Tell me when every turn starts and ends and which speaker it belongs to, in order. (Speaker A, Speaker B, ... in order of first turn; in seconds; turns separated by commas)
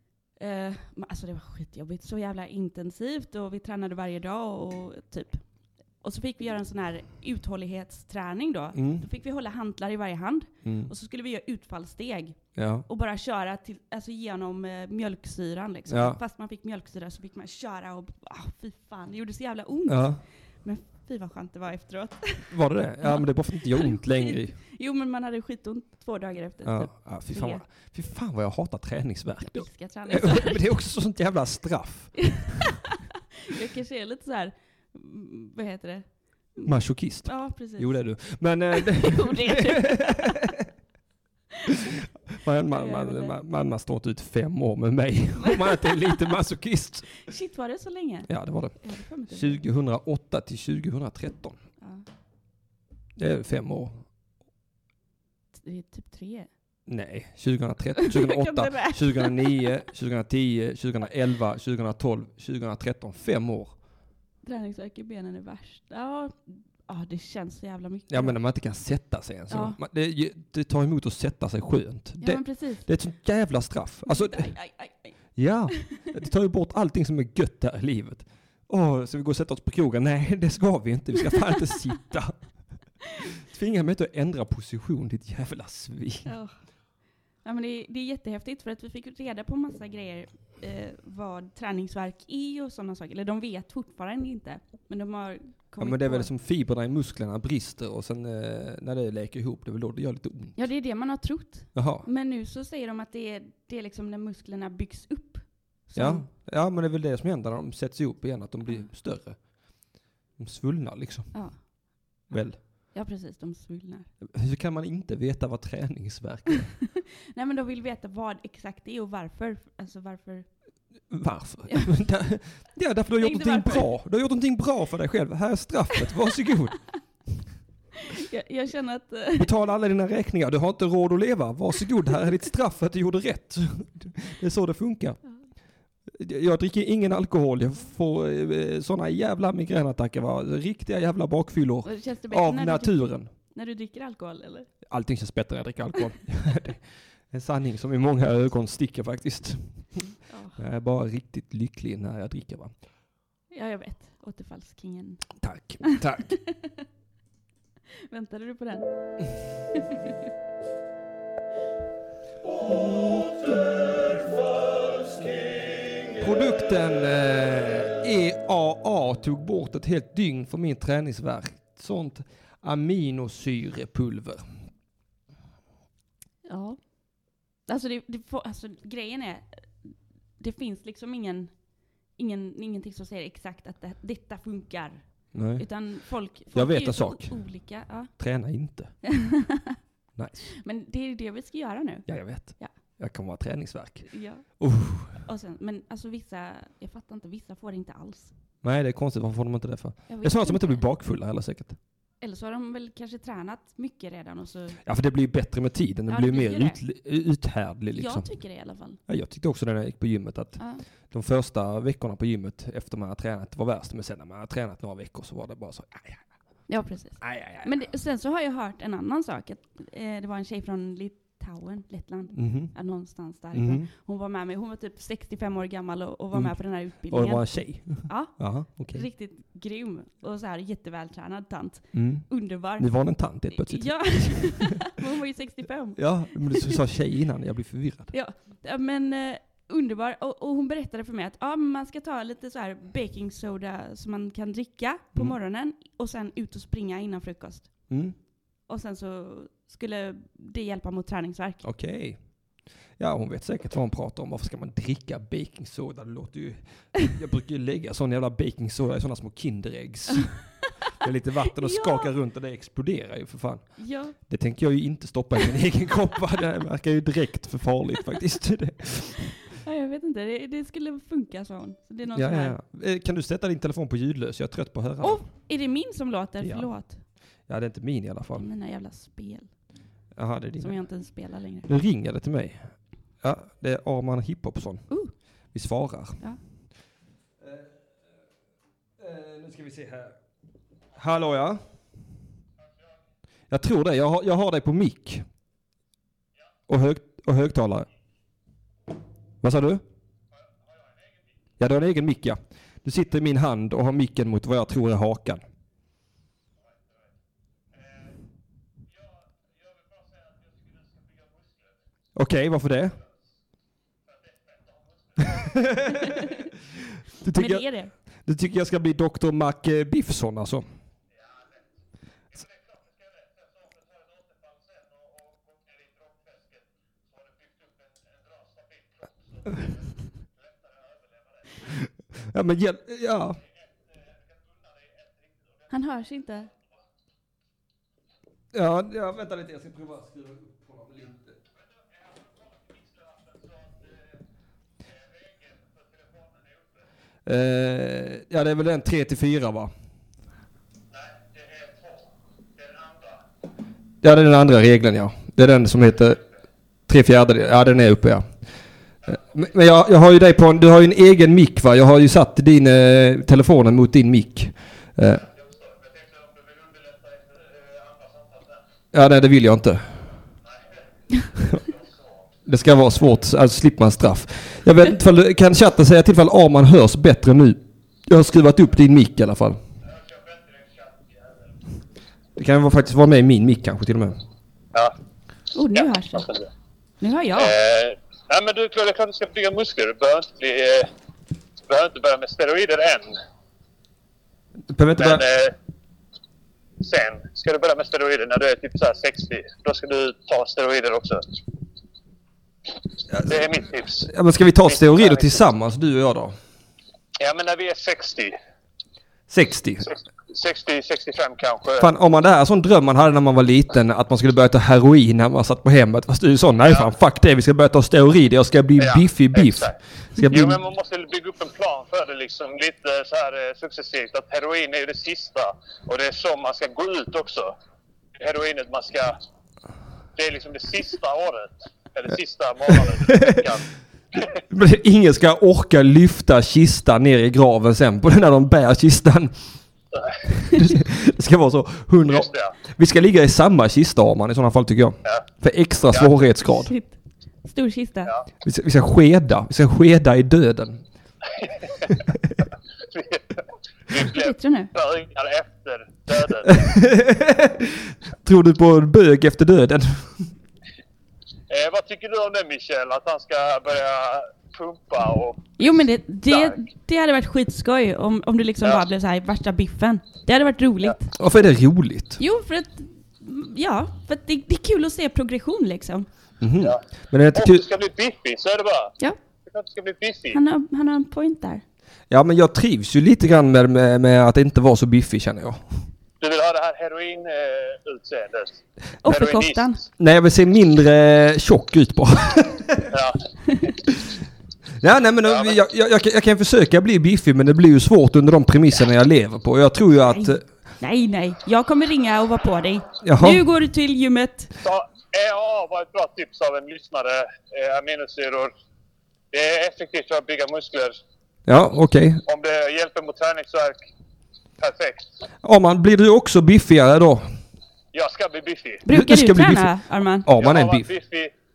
Speaker A: 0.3-27.6, Speaker B: 8.7-9.1, Speaker B: 10.6-10.9, Speaker B: 12.5-12.8, Speaker B: 15.9-16.2, Speaker B: 19.9-20.2, Speaker B: 22.5-24.6, Speaker B: 26.6-32.3, Speaker A: 29.4-30.7, Speaker A: 32.2-36.7, Speaker B: 36.6-40.5, Speaker A: 37.2-38.1, Speaker A: 38.7-40.4, Speaker B: 42.3-47.2, Speaker A: 42.7-43.4, Speaker A: 45.4-46.2, Speaker A: 47.2-49.6, Speaker B: 48.3-51.6, Speaker A: 51.8-52.0, Speaker B: 53.2-54.0, Speaker A: 55.5-56.5, Speaker B: 56.9-63.7, Speaker A: 58.0-59.7, Speaker A: 64.4-68.4, Speaker B: 68.1-74.5, Speaker A: 69.5-69.8, Speaker A: 72.2-72.9, Speaker A: 74.0-75.1, Speaker B: 75.3-82.4, Speaker B: 83.4-86.3, Speaker A: 86.2-86.5, Speaker A: 87.4-96.3, Speaker B: 95.8-100.5, Speaker A: 100.5-106.3, Speaker B: 101.7-102.0, Speaker B: 105.9-111.7, Speaker A: 111.3-112.3, Speaker B: 112.3-112.6, Speaker A: 112.9-114.1, Speaker B: 114.2-116.8, Speaker A: 117.0-120.6, Speaker B: 121.1-126.8, Speaker A: 123.2-123.9, Speaker A: 128.1-129.5, Speaker B: 129.3-135.2, Speaker B: 136.1-143.3, Speaker A: 141.8-144.7, Speaker B: 144.9-150.0, Speaker A: 150.3-150.6, Speaker B: 150.6-152.7, Speaker A: 153.5-156.8, Speaker B: 155.4-156.3, Speaker A: 158.1-160.1, Speaker B: 166.2-174.4, Speaker A: 176.4-188.1, Speaker B: 185.3-185.7, Speaker B: 186.5-187.4, Speaker B: 188.1-189.0, Speaker A: 189.0-189.8, Speaker B: 190.2-190.5, Speaker A: 190.5-192.7, Speaker B: 192.1-195.2, Speaker A: 194.1-194.6, Speaker A: 195.1-198.3, Speaker B: 198.6-201.8, Speaker A: 200.1-200.8, Speaker A: 202.2-204.8, Speaker B: 204.8-208.3, Speaker A: 206.1-206.8, Speaker A: 207.9-209.0, Speaker B: 209.1-216.3, Speaker A: 210.6-210.8, Speaker A: 216.7-232.9, Speaker B: 217.2-217.7, Speaker B: 222.3-222.7, Speaker B: 223.5-223.9, Speaker B: 226.3-229.1, Speaker B: 231.9-234.7, Speaker A: 233.5-236.8, Speaker B: 236.0-238.1, Speaker A: 238.1-247.9, Speaker B: 247.9-248.2, Speaker A: 248.7-251.6, Speaker B: 251.6-252.2, Speaker B: 253.0-269.4, Speaker A: 261.5-262.1, Speaker A: 263.8-264.1, Speaker A: 269.5-272.6, Speaker B: 272.1-275.2, Speaker A: 275.0-277.0, Speaker B: 276.4-276.7, Speaker B: 277.4-278.5, Speaker A: 278.4-279.5, Speaker B: 280.1-280.8, Speaker A: 280.6-281.7, Speaker B: 281.6-284.9, Speaker B: 285.5-286.2, Speaker B: 287.4-287.9, Speaker B: 289.0-290.2, Speaker B: 290.9-291.6, Speaker B: 293.5-295.2, Speaker B: 296.7-297.9, Speaker B: 299.4-299.8, Speaker B: 301.6-305.4, Speaker B: 312.1-313.0, Speaker B: 315.2-316.3, Speaker B: 317.2-320.6, Speaker A: 317.3-317.9, Speaker B: 332.2-333.4, Speaker A: 335.7-336.5, Speaker B: 338.5-341.4, Speaker B: 347.2-349.7, Speaker C: 350.9-352.0, Speaker C: 352.6-353.2, Speaker B: 354.0-356.2, Speaker B: 356.9-358.2, Speaker B: 359.1-365.2, Speaker C: 365.4-368.6, Speaker B: 368.9-369.8, Speaker B: 372.4-379.6, Speaker C: 379.9-381.1, Speaker B: 382.4-384.2, Speaker A: 385.5-386.3, Speaker C: 385.7-386.5, Speaker A: 387.0-387.6, Speaker C: 387.4-390.9, Speaker C: 391.7-393.2, Speaker B: 394.7-395.2, Speaker C: 395.0-395.5, Speaker C: 396.8-401.2, Speaker B: 403.1-403.4, Speaker C: 403.2-404.1, Speaker B: 404.0-406.4, Speaker C: 404.6-405.3, Speaker C: 407.2-408.3, Speaker B: 409.3-409.9, Speaker C: 409.8-411.9, Speaker B: 411.8-420.6, Speaker C: 416.6-416.9, Speaker C: 418.8-419.8, Speaker C: 420.3-427.5, Speaker C: 428.2-429.2, Speaker C: 430.1-434.3, Speaker B: 433.1-433.4, Speaker B: 434.5-439.3, Speaker B: 440.4-446.7, Speaker C: 442.1-442.5, Speaker C: 445.9-446.2, Speaker A: 446.4-448.1, Speaker B: 448.4-450.8, Speaker C: 452.9-456.7, Speaker A: 454.1-454.7, Speaker B: 456.4-460.2, Speaker C: 461.5-465.6, Speaker A: 465.6-471.1, Speaker C: 466.3-466.6, Speaker B: 471.1-472.2, Speaker A: 472.2-476.1, Speaker B: 476.4-477.6, Speaker C: 477.3-478.9, Speaker C: 479.5-480.4, Speaker A: 480.3-481.6, Speaker B: 482.1-485.6, Speaker C: 486.2-489.8, Speaker A: 489.0-489.8, Speaker B: 490.0-492.9, Speaker C: 492.9-493.2, Speaker B: 494.8-500.4, Speaker C: 495.2-495.6, Speaker A: 500.1-504.5, Speaker B: 503.0-503.4, Speaker C: 504.6-508.5, Speaker C: 509.3-511.0, Speaker B: 511.5-512.2, Speaker C: 512.2-513.8, Speaker C: 514.6-515.1, Speaker B: 515.4-517.2, Speaker C: 517.9-518.8, Speaker A: 518.8-520.3, Speaker B: 518.9-519.7, Speaker B: 520.2-520.9, Speaker C: 520.4-521.3